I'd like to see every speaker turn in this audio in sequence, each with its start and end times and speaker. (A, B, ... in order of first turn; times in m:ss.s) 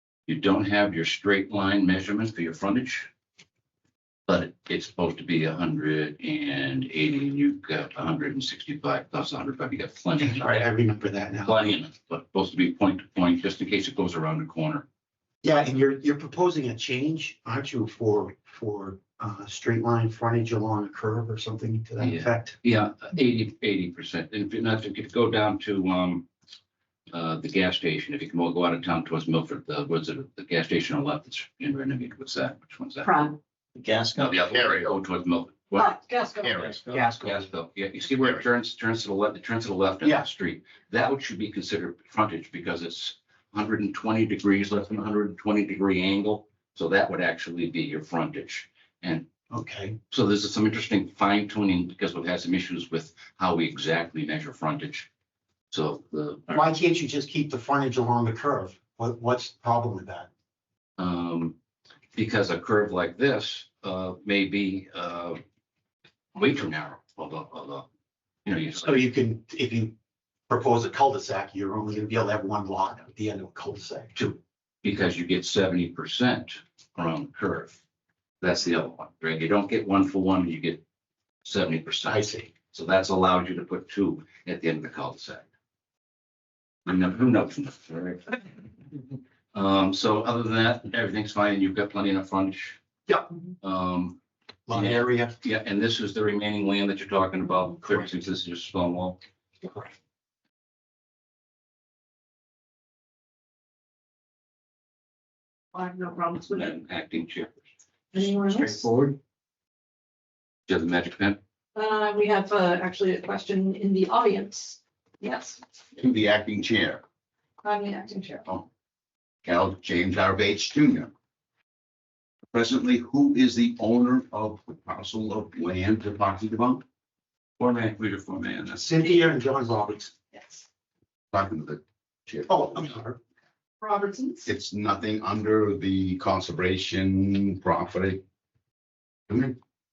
0:00.3-0:03.1 A
0:04.3-0:10.7 A
0:10.2-0:11.6 B
0:11.4-0:14.8 A
0:15.4-0:22.6 B
0:22.0-0:26.2 A
0:27.1-0:33.1 A
0:33.0-0:33.4 C
0:33.8-0:34.4 B
0:34.2-0:35.9 A
0:34.5-0:34.9 C
0:35.8-0:36.8 D
0:36.4-0:36.8 C
0:36.9-0:37.4 B
0:37.0-0:49.2 A
0:40.0-0:40.3 B
0:49.5-0:50.0 B
0:50.1-0:55.1 A
0:55.7-0:56.6 A
0:56.5-1:00.3 B
1:01.0-1:01.6 A
1:02.1-1:05.4 A
1:06.3-1:07.8 A
1:08.4-1:08.9 A
1:08.7-1:09.9 B
1:10.5-1:14.3 B
1:14.2-1:17.8 A
1:18.4-1:20.8 A
1:21.4-1:25.4 A
1:22.0-1:22.5 B
1:26.8-1:28.2 A
1:29.5-1:32.8 A
1:33.6-1:34.2 A
1:34.7-1:35.3 B
1:34.7-1:39.2 A
1:45.7-1:46.7 D
1:46.5-1:47.5 A
1:48.1-1:48.9 D
1:50.7-1:51.4 A
1:51.7-1:55.6 D
1:56.0-1:57.0 C
1:57.6-1:58.4 D
1:59.4-2:01.1 C
2:02.5-2:06.8 C
2:07.6-2:08.8 A
2:08.7-2:10.1 B
2:11.3-2:12.9 C
2:12.5-2:13.2 B
2:13.8-2:14.4 D
2:14.4-2:18.2 C
2:19.3-2:19.6 C